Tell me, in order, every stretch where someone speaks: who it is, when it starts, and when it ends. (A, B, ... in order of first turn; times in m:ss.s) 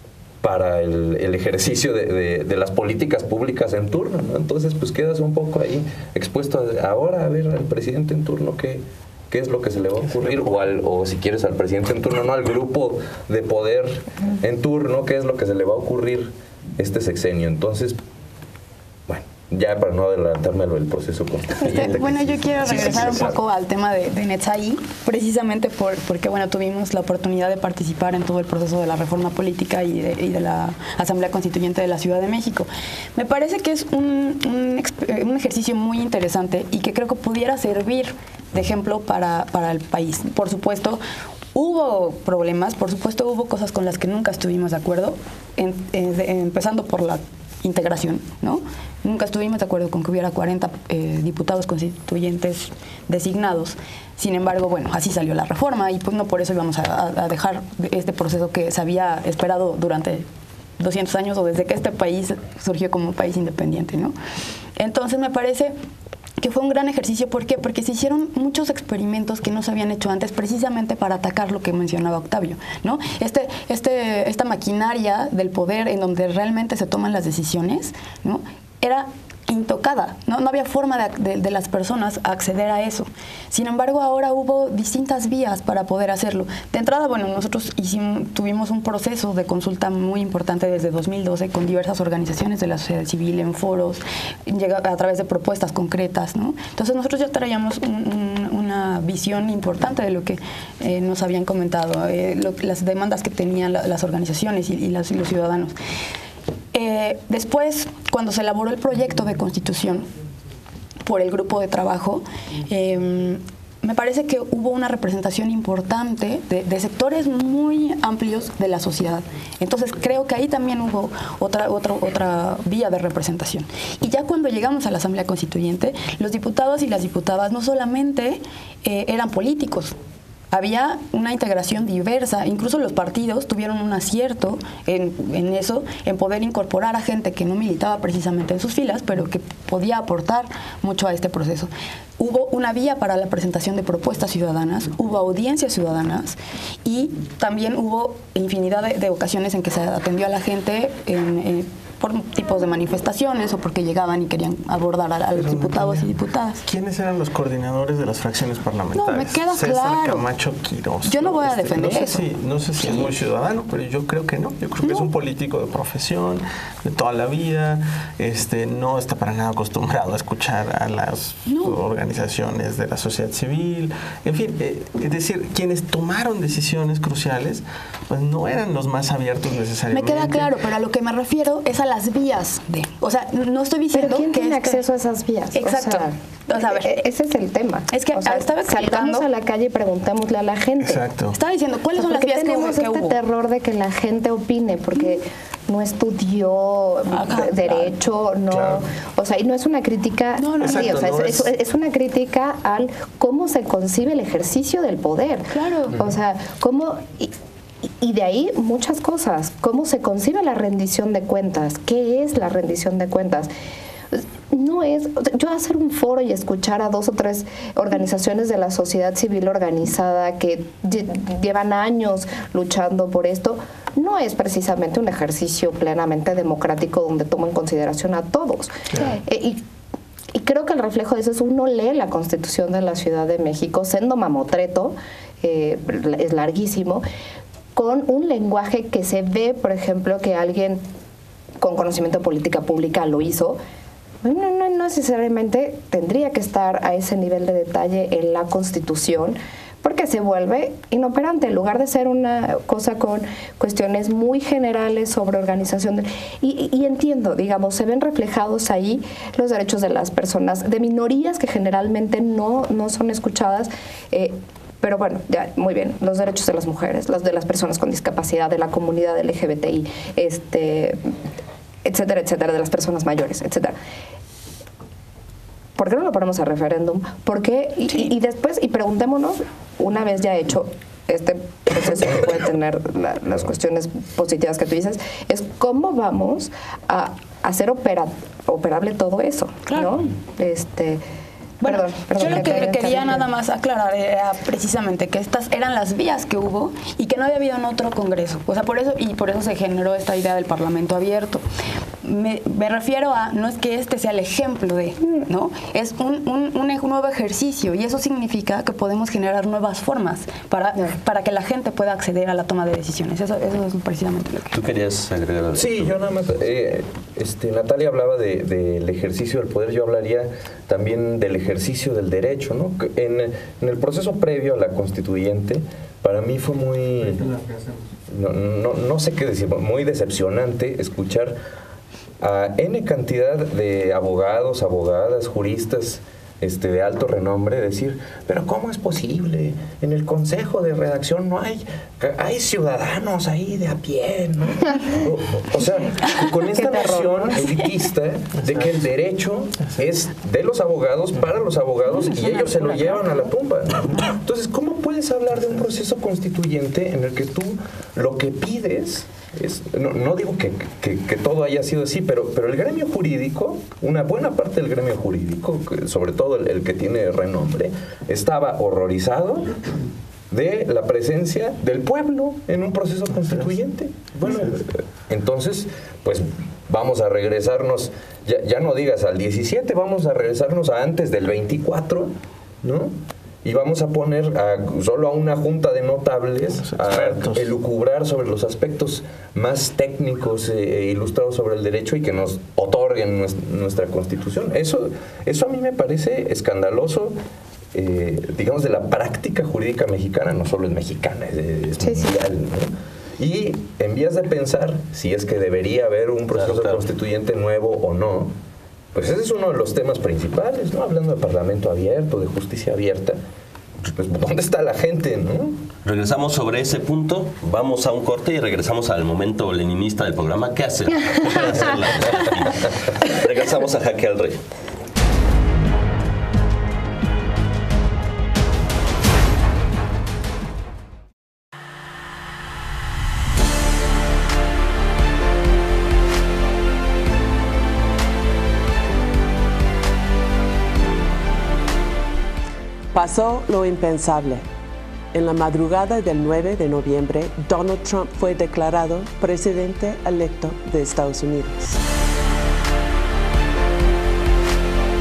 0:00.4-0:18.0 A
0:19.1-0:23.4 A
0:21.6-0:41.0 B
0:41.5-1:00.2 B
1:00.8-1:04.1 B
1:04.8-1:05.7 B
1:06.4-1:45.7 B
1:46.7-1:50.0 B
1:51.0-2:09.9 B
2:10.5-2:36.6 B
2:35.3-3:00.6 C
2:38.9-2:40.2 B
2:41.0-2:43.1 B
2:44.8-2:45.1 B
2:51.4-2:51.8 B
2:59.9-3:04.8 B
3:03.9-3:11.0 D
3:05.5-3:07.1 B
3:07.9-3:09.2 B
3:10.8-3:11.4 C
3:11.3-3:13.2 B
3:12.0-3:27.3 D
3:17.1-3:17.9 B
3:18.5-3:18.8 C
3:20.4-3:21.1 B
3:20.6-3:21.4 C
3:25.5-3:25.9 B
3:27.9-3:33.5 D
3:34.1-3:49.6 D
3:50.3-3:57.0 D
3:57.7-4:00.8 D
4:01.6-4:03.6 D
4:04.2-4:31.0 D
4:31.8-4:33.7 D
4:35.8-4:51.0 D
4:51.6-5:01.4 B
4:51.6-4:53.3 D
5:02.0-5:14.6 B
5:14.5-5:15.8 E
5:15.5-5:27.4 A
5:28.1-5:31.4 A
5:32.2-6:09.6 A
5:46.6-5:47.2 D
5:51.9-5:53.1 D
6:10.3-6:37.2 A
6:13.3-6:13.5 C
6:14.3-6:14.5 C
6:26.6-6:27.5 C
6:37.7-6:48.3 A
6:41.8-6:42.1 D
6:46.4-6:46.8 E
6:48.9-6:53.2 A
6:53.8-6:55.6 A
6:55.8-7:04.4 E
7:22.9-7:24.5 F
7:25.1-7:31.8 F